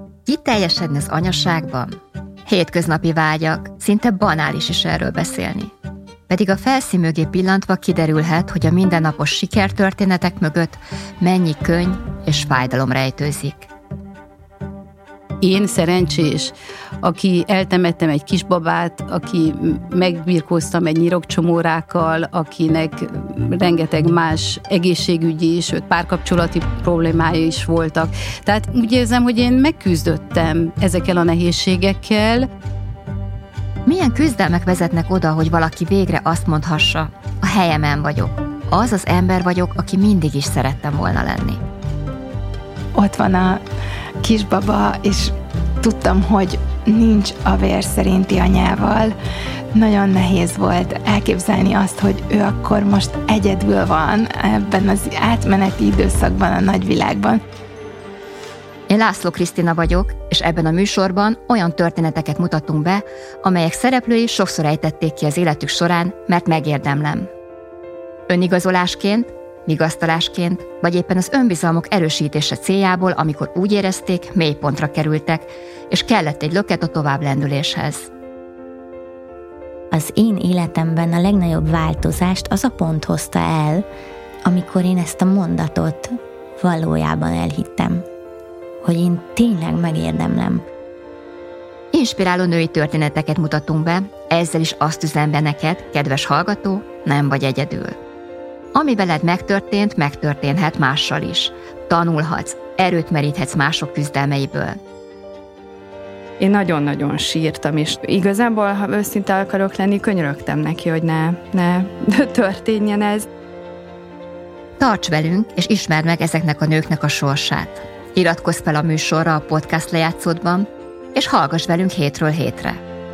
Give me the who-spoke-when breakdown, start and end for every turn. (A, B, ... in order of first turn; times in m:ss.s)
0:00.2-0:05.7 A
0:06.3-0:13.7 A
0:15.4-0:32.5 B
0:33.8-0:41.6 A
0:43.0-0:43.6 C
0:44.2-0:49.1 C
0:49.7-0:57.4 C
0:58.9-1:07.3 A
1:08.3-1:18.1 A
1:19.9-1:23.8 D
1:24.4-1:28.0 D
1:28.8-1:30.6 D
1:31.9-1:38.0 A
1:38.7-1:44.8 A
1:46.4-1:53.2 E
1:54.8-2:02.8 A